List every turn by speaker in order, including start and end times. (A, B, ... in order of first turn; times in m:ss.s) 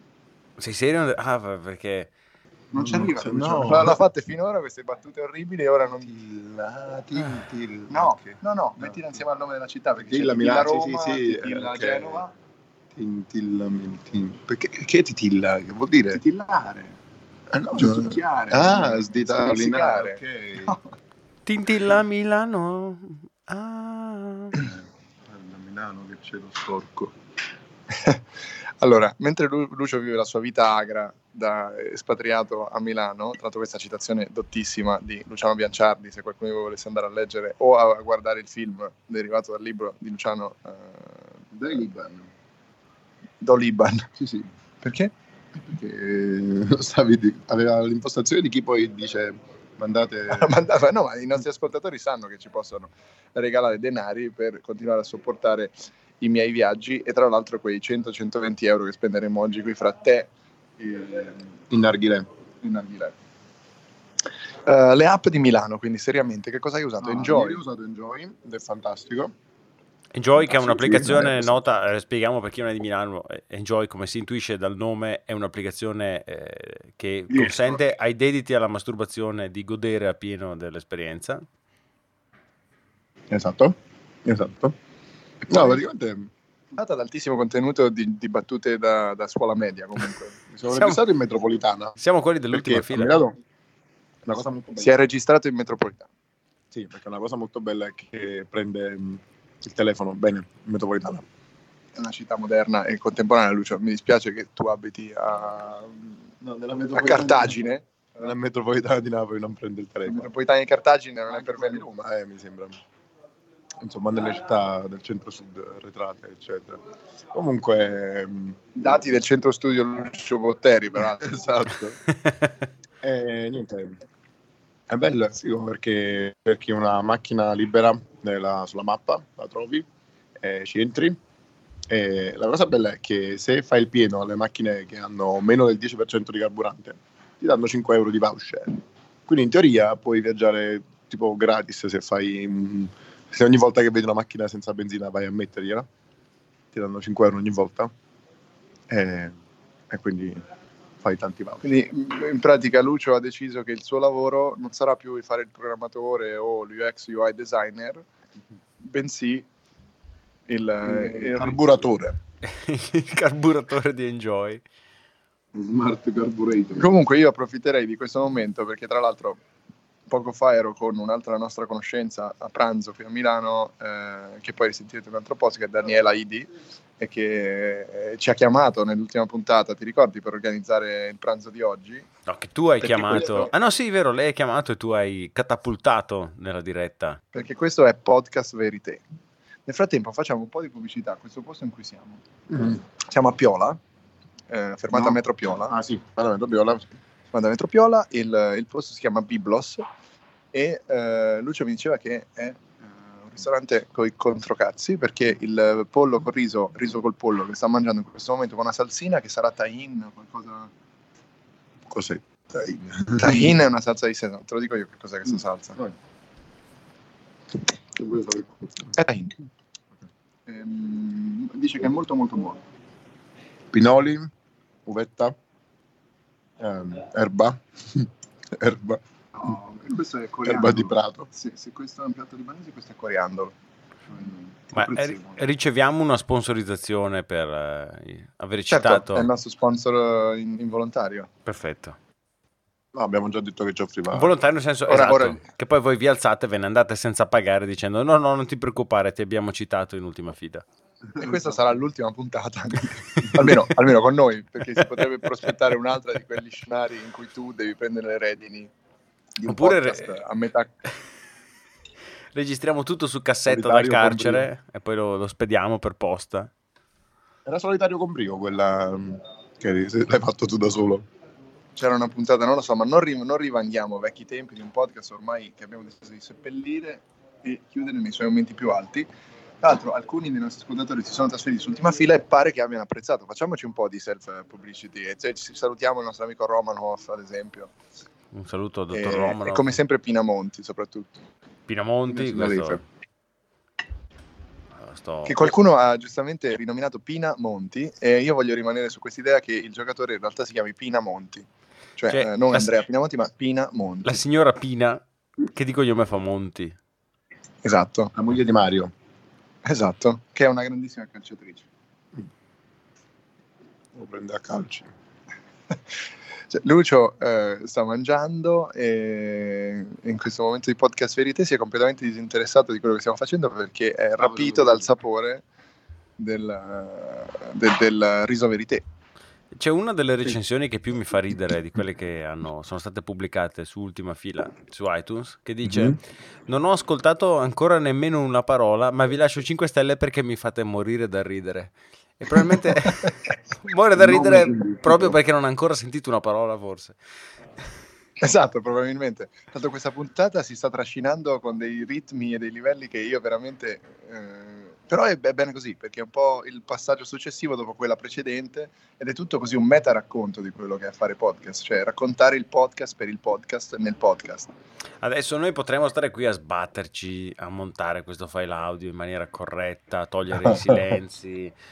0:00.6-0:02.1 A
0:02.7-0:04.0 B
0:02.7-0:06.1 C
0:06.0-0:09.0 B
0:07.9-0:12.3 C
0:10.0-0:12.3 B
0:12.9-0:16.2 B
0:16.1-0:16.9 C
0:17.5-0:20.7 B
0:17.7-0:20.8 C
0:21.4-0:24.6 A
0:24.6-0:27.1 B
0:27.9-0:28.2 C
0:28.8-0:41.5 C
0:41.5-0:42.3 B
0:43.4-0:44.1 C
0:44.2-0:44.5 B
0:44.8-0:45.1 C
0:45.6-0:50.6 B
0:50.3-1:01.5 C
1:01.7-1:02.3 B
1:02.6-1:03.1 C
1:04.6-1:07.6 C
1:07.0-1:09.3 B
1:10.1-1:21.4 A
1:10.4-1:11.6 B
1:17.3-1:17.8 C
1:23.3-1:24.8 B
1:25.5-1:25.8 C
1:25.5-1:26.3 B
1:26.7-1:30.4 C
1:30.5-1:32.0 B
1:30.7-1:31.0 A
1:32.0-1:33.2 A
1:32.5-1:33.4 B
1:34.2-1:35.0 B
1:34.8-1:36.1 C
1:36.7-1:41.2 B
1:41.9-1:46.2 C
1:46.4-1:47.6 B
1:46.9-1:48.2 C
1:48.2-1:50.3 B
1:50.0-1:51.9 C
1:51.3-1:52.8 B
1:53.8-1:56.8 B
1:57.3-1:58.8 B
1:58.7-2:01.5 C
2:01.1-2:02.0 B
2:03.0-2:04.0 B
2:04.9-2:09.9 B
2:10.4-2:11.2 B
2:11.9-2:25.9 B
2:26.7-2:27.9 B
2:28.9-2:29.3 B
2:29.9-2:30.4 B
2:31.0-2:31.7 B
2:31.6-2:38.0 C
2:38.8-2:39.4 C
2:40.5-2:41.8 C
2:40.8-2:42.2 B
2:42.4-2:44.6 A
2:45.5-2:46.9 B
2:46.8-2:49.4 C
2:50.1-3:02.1 C
3:02.3-3:07.2 A
3:02.9-3:03.5 B
3:03.1-3:03.4 C
3:07.3-3:09.0 C
3:09.6-3:12.2 C
3:12.5-3:12.8 B
3:13.0-3:13.8 C
3:14.5-3:15.7 C
3:14.9-3:16.8 B
3:17.3-3:19.8 C
3:20.5-3:30.7 C
3:31.9-3:33.6 B
3:33.2-3:35.8 C
3:37.9-3:39.0 B
3:39.0-3:39.3 C
3:40.5-3:42.6 C
3:43.7-3:44.3 B
3:44.8-3:45.3 B
3:46.6-3:49.0 B
3:49.3-3:53.5 C
3:50.4-3:51.3 B
3:54.1-3:55.4 C
3:54.7-3:59.3 A
3:58.7-4:01.3 C
4:01.4-4:02.0 A
4:02.9-4:04.3 B
4:04.1-4:10.6 A
4:04.9-4:05.4 C
4:11.2-4:18.7 C
4:19.4-4:20.7 C
4:19.5-4:20.2 A
4:22.3-4:26.5 A
4:23.5-4:24.5 B
4:27.4-4:31.1 B
4:31.7-4:39.1 C
4:39.6-4:47.7 C
4:48.3-4:49.8 A
4:48.9-4:51.2 C
4:51.7-4:52.8 A
4:52.1-4:52.8 C
4:54.8-4:55.5 A
4:55.2-5:01.4 C
5:02.0-5:04.2 C
5:02.1-5:02.7 A
5:04.0-5:06.8 A
5:07.6-5:08.1 C
5:08.1-5:08.9 B
5:09.6-5:11.6 C
5:13.9-5:14.9 B
5:16.5-5:25.4 C
5:24.2-5:24.9 B
5:26.2-5:28.8 C
5:29.5-5:47.0 A
5:35.6-5:36.0 B
5:44.0-5:45.2 B
5:48.2-6:04.5 C
6:05.0-6:11.5 A